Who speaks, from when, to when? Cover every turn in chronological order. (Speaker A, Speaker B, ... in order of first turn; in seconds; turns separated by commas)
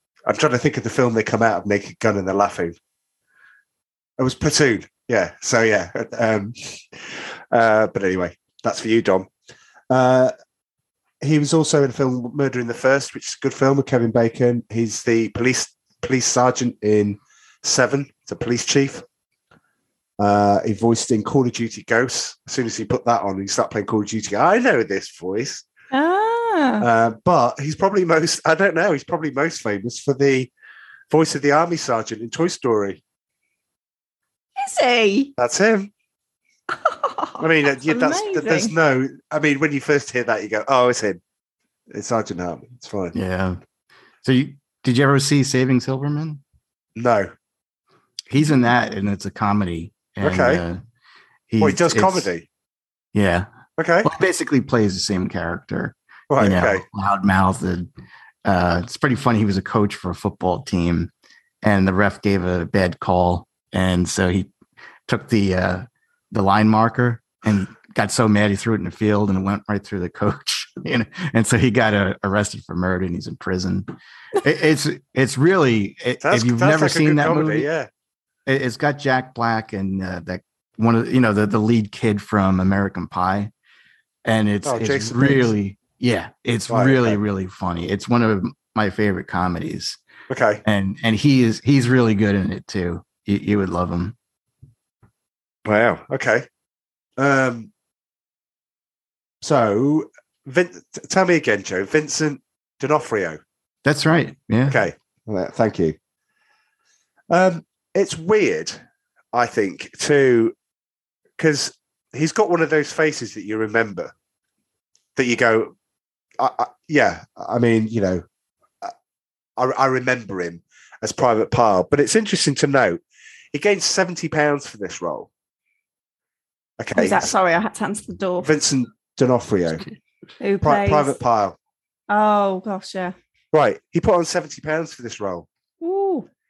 Speaker A: 0.2-2.7, Speaker A: 4.2-9.3, Speaker A: 9.9-10.3, Speaker A: 11.2-19.0, Speaker A: 20.2-25.6, Speaker B: 25.9-26.8, Speaker A: 26.8-30.5, Speaker A: 31.1-33.0, Speaker B: 34.6-35.3, Speaker A: 35.4-35.9, Speaker B: 36.7-38.7, Speaker A: 37.4-41.2, Speaker A: 41.9-43.1, Speaker C: 43.1-43.6, Speaker C: 44.2-46.4, Speaker A: 47.0-47.3, Speaker C: 48.3-50.8, Speaker A: 50.2-50.6, Speaker C: 51.5-52.3, Speaker A: 51.6-52.4, Speaker C: 53.1-53.5, Speaker A: 53.8-54.1, Speaker C: 54.0-57.9, Speaker A: 56.3-56.8, Speaker C: 58.4-61.1, Speaker C: 61.6-64.5, Speaker C: 65.1-77.7, Speaker A: 76.2-77.9, Speaker C: 78.5-83.5, Speaker C: 84.2-90.0, Speaker A: 84.6-85.5, Speaker A: 86.7-87.2, Speaker A: 90.3-90.6, Speaker C: 90.6-94.1, Speaker A: 95.6-96.5, Speaker A: 97.2-97.7, Speaker A: 99.4-103.4, Speaker C: 103.8-104.8, Speaker A: 104.7-106.0, Speaker A: 107.3-108.8, Speaker A: 109.3-110.5, Speaker A: 111.4-114.1, Speaker A: 115.2-115.7, Speaker A: 116.4-118.2, Speaker A: 119.6-123.0, Speaker A: 123.5-125.3, Speaker A: 126.8-127.3, Speaker B: 126.9-128.5, Speaker A: 128.4-129.9, Speaker B: 130.4-131.2, Speaker A: 130.6-131.6, Speaker B: 132.1-133.1, Speaker A: 133.5-135.4, Speaker B: 135.8-136.3